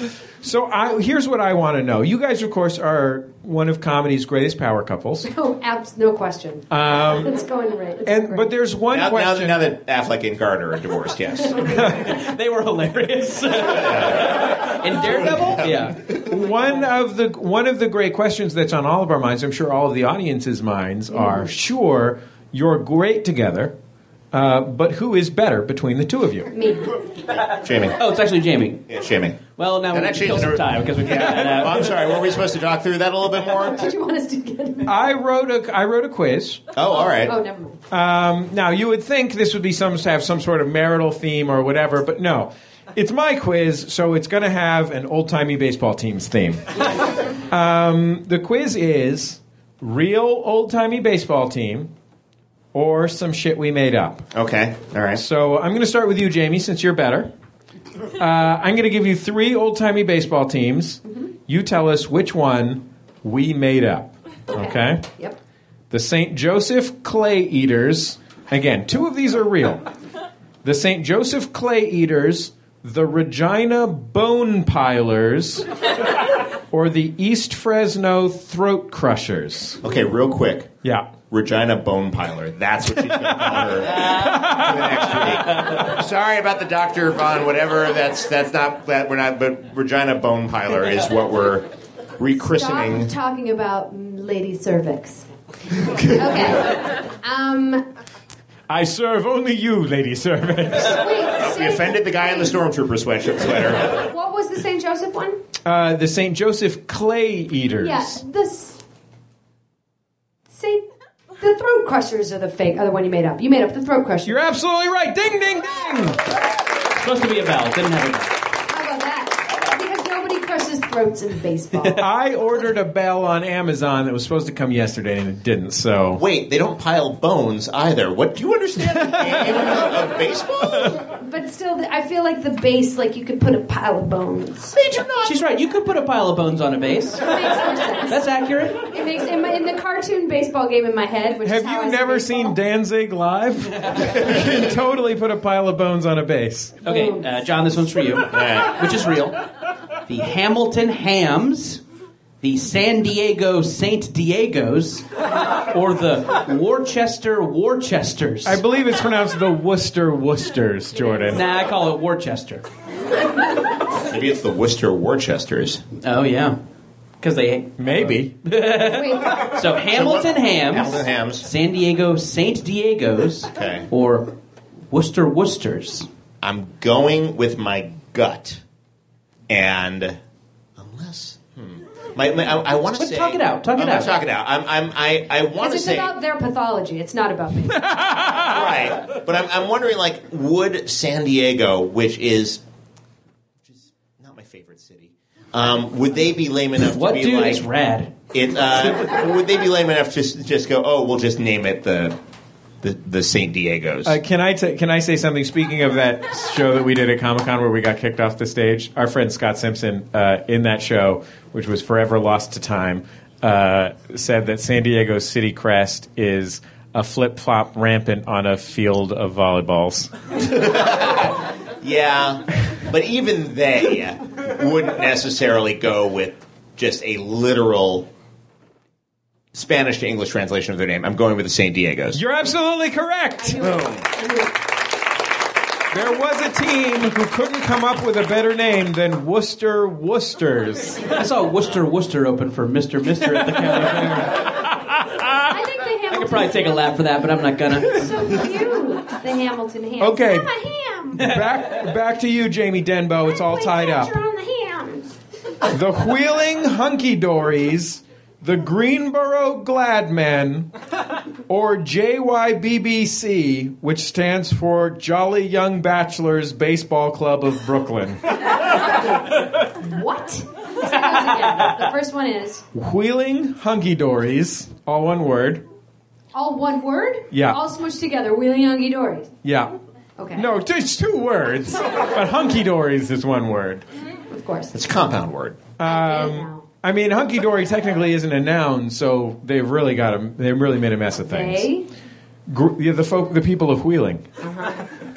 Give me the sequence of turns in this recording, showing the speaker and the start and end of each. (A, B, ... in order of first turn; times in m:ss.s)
0:00.4-0:05.3 A
0:05.2-0:08.4 B
0:06.7-0:07.3 A
0:08.0-0:09.6 A
0:08.9-0:11.6 C
0:11.6-0:12.1 A
0:11.9-0:16.0 D
0:13.7-0:14.5 C
0:15.1-0:16.0 C
0:16.2-0:23.7 A
0:21.1-0:21.5 B
0:24.3-0:26.5 A
0:26.5-0:27.0 B
0:27.6-0:28.0 C
0:28.0-0:28.8 D
0:28.9-0:33.9 C
0:29.6-0:31.9 D
0:33.6-0:35.0 B
0:34.8-0:36.6 A
0:36.7-0:37.3 C
0:36.9-0:37.8 B
0:37.9-0:46.6 A
0:47.5-0:51.9 A
0:52.7-0:54.3 A
0:54.3-0:55.2 C
0:55.1-0:57.3 A
0:58.2-1:05.0 A
1:04.6-1:05.4 B
1:05.9-1:09.9 A
1:10.6-1:15.7 A
1:16.7-1:19.8 A
1:19.8-1:20.7 C
1:20.8-1:21.1 A
1:21.3-1:31.7 C
1:24.0-1:24.3 D
1:24.0-1:25.3 A
1:32.2-1:33.1 C
1:32.4-1:35.3 B
1:36.1-1:37.8 B
1:38.7-1:41.1 A
1:40.9-1:42.5 B
1:41.4-1:43.9 C
1:44.0-1:45.4 B
1:45.6-1:48.2 A
1:47.8-1:48.8 B
1:50.5-1:50.8 B
1:51.4-1:54.4 B
1:54.2-1:56.2 A
1:57.0-1:58.4 D
1:58.7-2:02.1 B
2:02.0-2:06.2 A
2:06.2-2:11.0 C
2:08.8-2:09.5 A
2:11.2-2:14.8 B
2:14.7-2:15.3 C
2:15.2-2:17.2 D
2:17.2-2:18.3 B
2:18.1-2:18.8 D
2:18.9-2:22.6 B
2:21.4-2:26.8 A
2:26.8-2:29.4 D
2:26.9-2:27.3 B
2:28.3-2:28.7 C
2:30.1-2:31.8 D
2:32.4-2:35.0 D
2:35.7-2:38.6 D
2:38.4-2:41.4 A
2:41.0-2:41.4 B
2:41.3-2:42.6 D
2:44.1-2:45.8 C
2:46.0-2:46.6 D
2:47.2-2:54.3 D
2:47.8-2:48.3 A
2:48.8-2:49.6 B
2:49.9-2:51.4 C
2:53.5-2:53.9 C
2:54.9-2:56.1 D
2:56.4-2:58.6 C
2:59.5-3:00.2 C
3:00.8-3:06.1 C
3:03.0-3:04.1 D
3:05.6-3:07.9 B
3:07.8-3:08.5 A
3:08.4-3:12.6 C
3:14.2-3:17.7 C
3:16.9-3:18.1 D
3:18.3-3:22.1 C
3:22.8-3:24.2 C
3:24.0-3:40.1 A
3:40.4-3:48.1 C
3:49.5-3:52.2 C
3:52.1-3:53.7 A
3:53.4-3:54.5 B
3:53.6-3:54.0 C
3:55.9-4:01.0 A
4:01.1-4:04.3 D
4:03.4-4:04.2 A
4:04.8-4:05.3 A
4:05.5-4:06.9 B
4:06.1-4:08.1 D
4:07.9-4:11.2 B
4:10.0-4:10.5 A
4:11.2-4:11.7 D
4:11.2-4:14.1 A
4:13.2-4:15.1 B
4:15.7-4:20.7 A
4:21.5-4:28.2 A
4:28.8-4:32.6 B
4:32.7-4:35.6 A
4:36.3-4:39.3 B
4:37.3-4:37.6 A
4:39.4-4:39.7 A
4:40.2-4:40.5 B
4:40.3-4:43.8 A
4:44.3-4:44.7 B
4:44.7-4:45.6 C
4:45.8-4:51.7 A
4:45.8-4:46.6 B
4:51.3-4:51.9 B
4:52.5-4:54.2 A
4:54.4-4:54.8 B